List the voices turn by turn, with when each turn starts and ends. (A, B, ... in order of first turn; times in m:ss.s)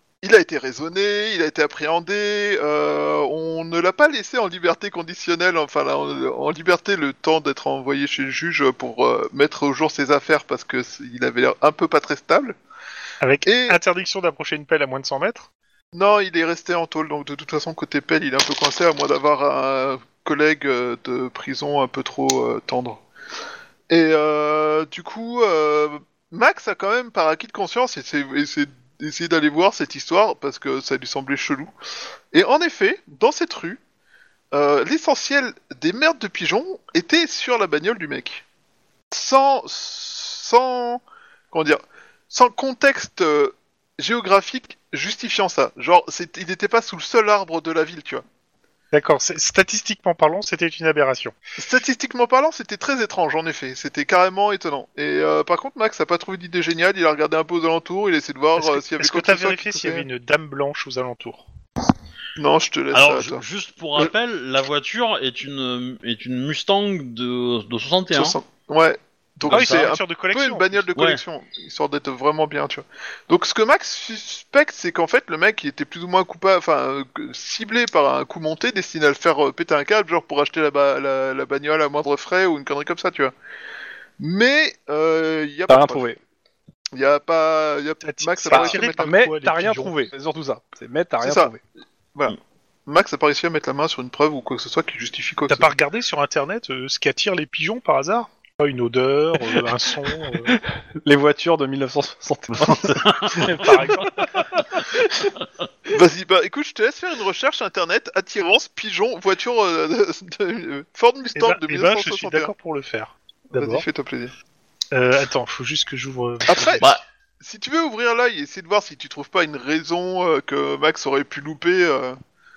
0:00.2-0:12.6 A
0:13.2-0:15.5 B
0:13.4-0:13.8 A
0:15.9-0:23.0 A
0:23.9-0:31.7 A
0:32.3-0:33.8 A
0:34.5-0:38.4 A
0:39.1-0:48.2 A
0:48.9-0:51.3 B
0:51.6-1:00.1 A
0:58.6-1:01.5 B
1:02.4-1:03.4 A
1:02.9-1:08.4 C
1:08.1-1:23.3 A
1:09.5-1:10.9 B
1:09.5-1:09.9 C
1:11.0-1:11.2 C
1:24.2-1:26.1 A
1:25.7-1:26.2 D
1:26.9-1:29.1 A
1:28.0-1:30.1 B
1:28.5-1:31.6 D
1:31.2-1:31.5 A
1:32.2-1:35.7 A
1:35.5-1:40.5 B
1:40.5-1:45.3 D
1:42.6-1:43.5 C
1:43.4-1:44.6 B
1:45.9-1:52.5 A
1:51.4-1:53.8 B
1:53.5-1:54.3 A
1:54.9-1:56.9 B
1:56.5-1:56.9 A
1:57.4-2:02.2 A